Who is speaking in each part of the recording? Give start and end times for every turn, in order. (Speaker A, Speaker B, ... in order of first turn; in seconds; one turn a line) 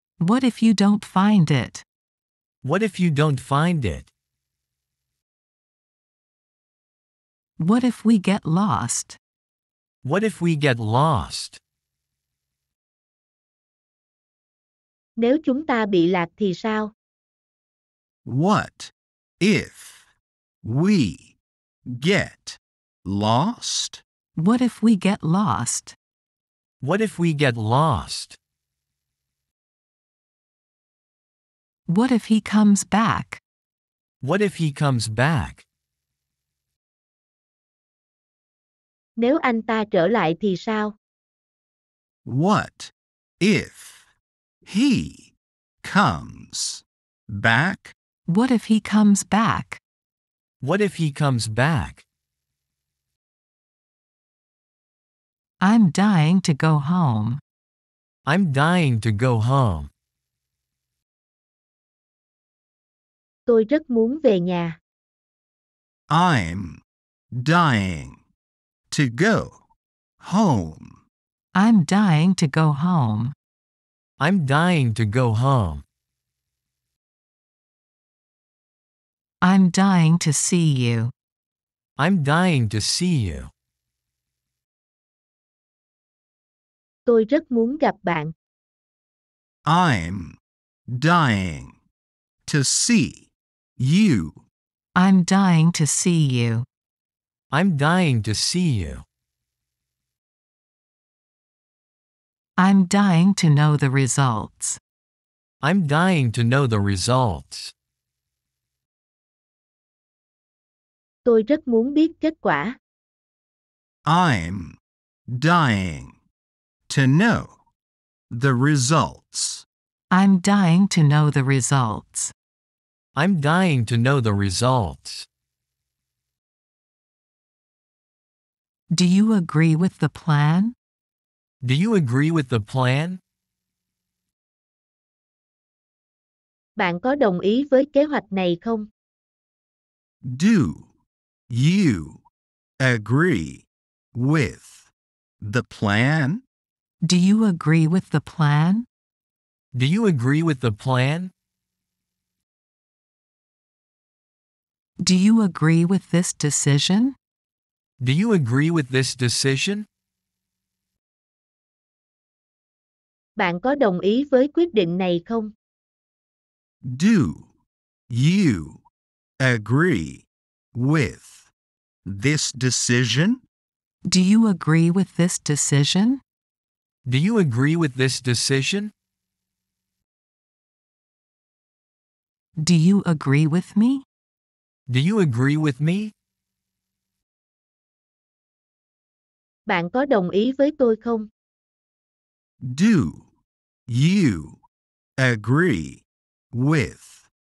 Speaker A: 0.2-1.8
Speaker B: 2.6-4.1
Speaker A: 7.6-9.2
Speaker B: 10.0-11.6
Speaker C: 15.2-16.9
Speaker D: 18.2-20.0
Speaker D: 20.6-21.4
Speaker D: 21.9-24.0
Speaker A: 24.4-25.9
Speaker B: 26.8-28.4
Speaker A: 31.9-33.4
Speaker B: 34.2-35.6
Speaker C: 39.2-41.0
Speaker D: 42.2-44.0
Speaker D: 44.6-48.0
Speaker A: 48.3-49.8
Speaker B: 50.6-52.0
Speaker A: 55.6-57.4
Speaker B: 58.3-59.9
Speaker C: 63.5-64.8
Speaker D: 66.1-68.2
Speaker D: 68.9-69.6
Speaker D: 70.2-71.0
Speaker A: 71.5-73.3
Speaker B: 74.2-75.8
Speaker A: 79.4-81.1
Speaker B: 82.0-83.5
Speaker C: 87.1-88.3
Speaker D: 89.7-91.7
Speaker D: 92.5-94.4
Speaker A: 95.0-96.7
Speaker B: 97.5-99.0
Speaker A: 102.6-104.8
Speaker B: 105.6-107.7
Speaker C: 111.2-112.8
Speaker D: 114.1-116.2
Speaker D: 116.9-117.6
Speaker D: 118.3-119.7
Speaker A: 120.1-122.3
Speaker B: 123.2-125.3
Speaker A: 128.9-130.7
Speaker B: 131.6-133.2
Speaker C: 136.8-138.9
Speaker D: 140.2-140.9
Speaker D: 141.5-142.2
Speaker D: 142.8-144.9
Speaker D: 145.4-146.4
Speaker A: 147.0-148.9
Speaker B: 149.7-151.3
Speaker A: 155.0-157.2
Speaker B: 158.0-159.9
Speaker C: 163.4-165.5
Speaker D: 166.8-167.5
Speaker D: 168.1-168.8
Speaker D: 169.4-171.5
Speaker D: 172.1-173.4
Speaker A: 174.1-176.2
Speaker B: 177.1-178.9
Speaker A: 182.6-184.1
Speaker B: 184.9-186.1
Speaker C: 189.7-191.3
Speaker D: 192.6-193.3
Speaker D: 193.9-194.6
Speaker D: 195.2-197.3